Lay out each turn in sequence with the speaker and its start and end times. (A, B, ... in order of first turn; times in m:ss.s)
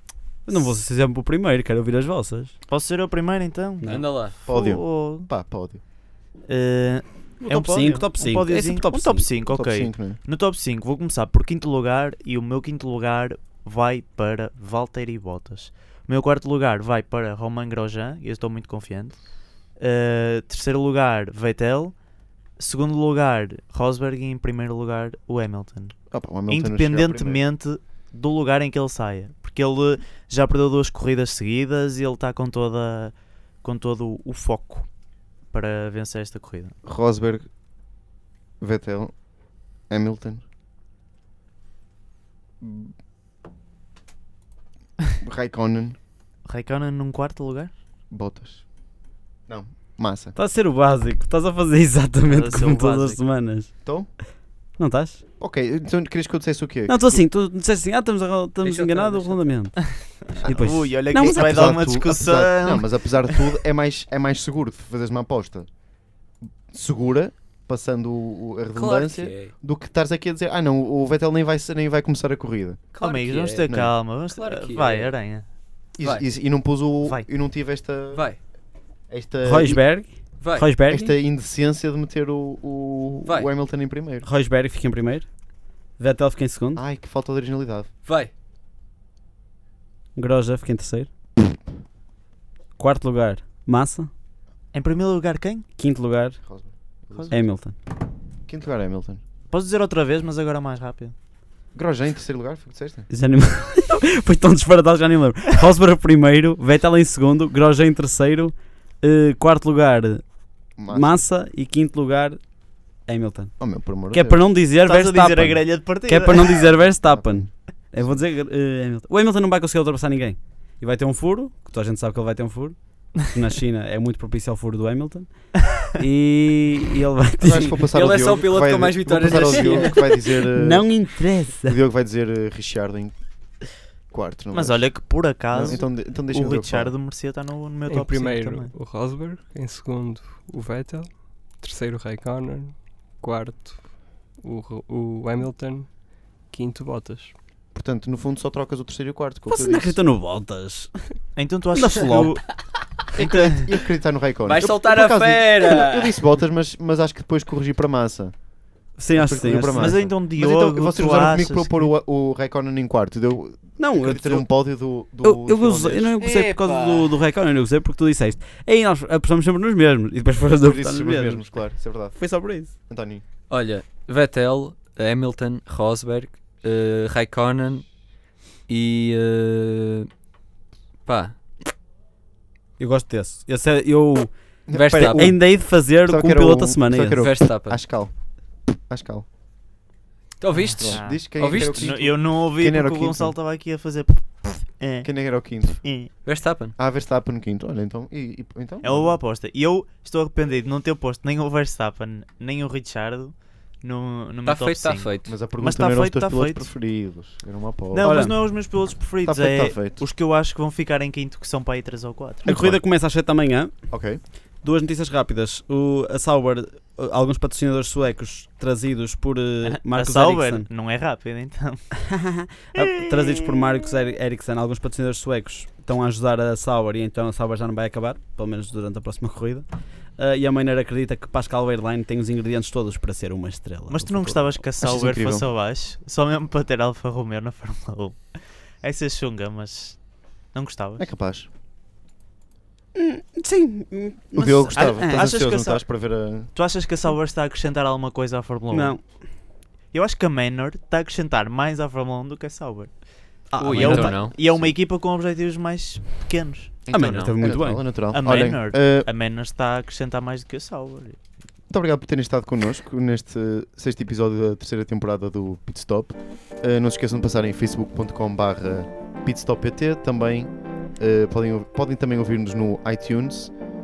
0:00.4-0:02.5 A
0:02.7-0:05.3 B
0:03.8-0:04.1 A
0:03.8-0:04.4 C
0:04.4-0:05.8 D
0:06.5-0:22.0 B
0:07.4-0:09.3 A
0:09.5-0:10.2 D
0:22.6-0:34.9 B
0:26.1-0:27.4 D
0:35.5-0:36.7 B
0:36.8-0:37.5 D
0:38.6-0:39.2 D
0:39.9-0:40.4 D
0:42.6-0:42.9 D
0:45.2-0:46.0 D
0:46.4-0:47.7 B
0:48.1-0:48.7 D
0:49.5-0:50.4 D
0:50.3-0:53.8 A
0:52.2-0:53.2 B
0:54.8-0:55.2 A
0:55.4-0:57.2 D
0:56.9-1:01.8 A
0:58.6-0:59.7 C
1:00.4-1:03.5 B
1:01.1-1:05.7 D
1:06.7-1:12.9 D
1:08.7-1:09.5 C
1:12.9-1:15.4 B
1:12.9-1:15.1 C
1:13.7-1:13.9 D
1:16.0-1:18.3 D
1:18.1-1:18.4 C
1:19.1-1:19.8 D
1:19.4-1:21.2 A
1:20.4-1:20.7 C
1:20.9-1:24.3 D
1:24.2-1:25.3 A
1:26.0-1:26.8 A
1:26.8-1:27.9 D
1:28.0-1:28.3 C
1:30.1-1:31.1 A
1:32.8-1:34.1 A
1:34.7-1:35.6 B
1:35.8-1:36.4 A
1:36.4-1:37.4 D
1:37.3-1:37.7 A
1:38.5-1:39.2 D
1:39.5-1:41.1 B
1:41.7-1:43.1 D
1:43.1-1:50.2 A
1:50.8-1:51.2 D
1:50.9-1:52.4 A
1:53.0-2:07.9 A
1:53.6-1:54.4 D
1:54.8-1:56.7 B
1:57.0-1:58.2 D
2:07.4-2:11.0 D
2:07.9-2:10.3 C
2:09.3-2:09.9 A
2:10.5-2:11.8 A
2:11.6-2:13.2 D
2:14.1-2:14.9 D
2:14.5-2:18.7 B
2:15.5-2:16.9 D
2:17.9-2:27.3 E
2:27.7-2:30.0 D
2:29.5-2:31.0 A
2:31.3-2:32.6 B
2:31.7-2:32.5 A
2:33.1-2:33.7 B
2:33.1-2:38.4 D
2:34.5-2:36.2 C
2:39.0-2:40.0 A
2:39.1-2:46.1 D
2:39.7-2:41.9 B
2:43.8-2:44.5 A
2:45.2-2:51.5 A
2:46.2-2:47.2 C
2:50.5-2:52.3 D
2:52.1-2:52.7 A
2:52.9-2:53.2 D
2:53.5-2:57.9 C
2:58.7-3:00.1 C
3:01.0-3:01.7 C
3:02.8-3:04.3 A
3:04.7-3:05.4 D
3:04.7-3:05.3 C
3:04.9-3:07.3 A
3:06.0-3:08.2 D
3:07.2-3:07.8 C
3:08.7-3:09.2 D
3:10.4-3:12.0 C
3:10.7-3:13.3 D
3:10.8-3:15.1 B
3:15.0-3:15.8 D
3:15.7-3:16.1 B
3:16.2-3:16.8 C
3:16.8-3:19.2 D
3:18.8-3:26.7 B
3:24.4-3:25.3 C
3:25.2-3:28.2 D
3:27.9-3:32.5 B
3:28.0-3:28.3 A
3:29.2-3:30.0 D
3:32.4-3:32.8 D
3:32.4-3:33.9 A
3:33.9-3:34.2 D
3:34.6-3:40.7 A
3:39.6-3:41.9 B
3:42.0-3:54.6 A
3:42.8-3:43.6 B
3:53.9-4:01.1 B
3:54.8-3:55.5 D
4:01.0-4:01.5 D
4:02.9-4:05.3 A
4:04.4-4:06.5 D
4:04.7-4:05.8 B
4:06.5-4:09.0 B
4:08.7-4:09.0 A
4:09.9-4:16.7 B
4:13.5-4:14.4 A
4:13.6-4:14.3 C
4:16.8-4:17.4 C
4:16.9-4:17.8 A
4:17.0-4:19.1 D
4:18.1-4:21.2 B
4:21.7-4:33.6 D